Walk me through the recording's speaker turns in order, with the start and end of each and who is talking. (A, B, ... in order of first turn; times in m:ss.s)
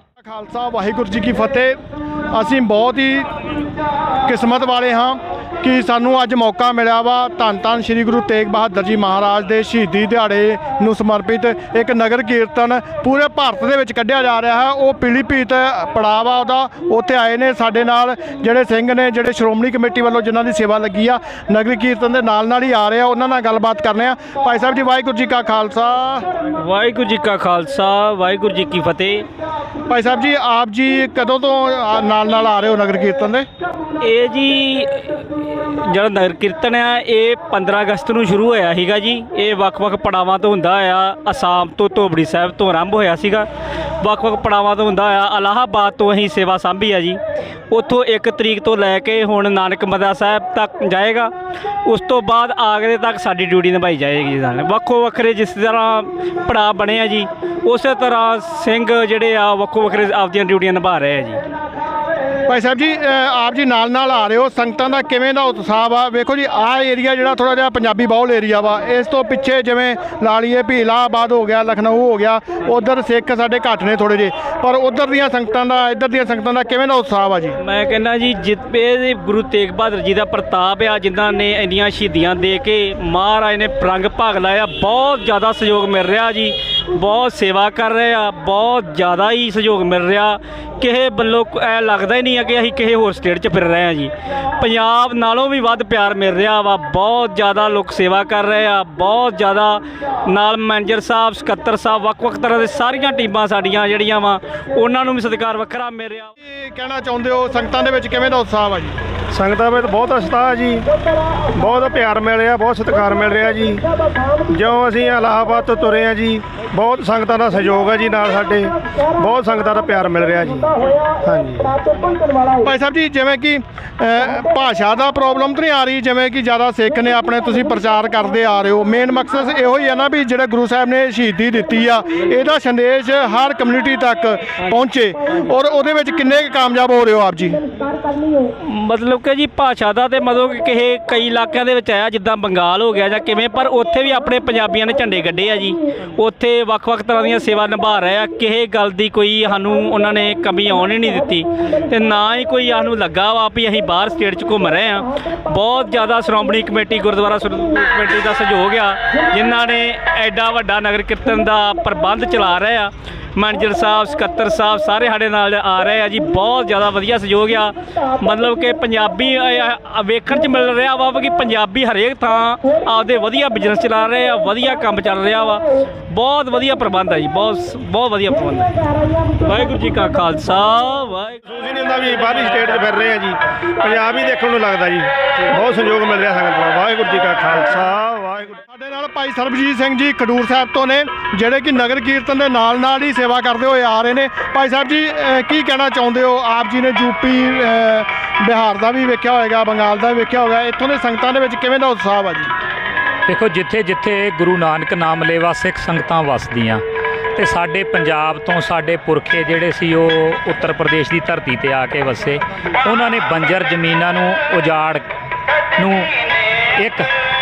0:00.2-0:01.8 A
0:02.3-0:03.4 A
0:04.2-0:26.3 A
0:26.5-0:29.3 B
0:29.9-0:33.5 A
0:34.0-0:43.5 B
0:44.0-0:47.2 B
0:47.7-0:51.3 B
0:51.8-1:01.4 B
1:02.5-1:17.6 A
1:17.6-1:46.3 B
1:46.4-1:49.0 A
1:49.3-1:50.9 C
1:51.5-1:53.8 C
1:54.4-2:01.8 C
2:02.6-2:17.7 A
2:18.6-3:01.4 B
3:01.5-3:08.6 C
3:08.7-3:22.5 A
3:23.3-3:26.8 D
3:27.4-3:35.0 D
3:35.8-3:36.1 D
3:36.8-3:37.1 D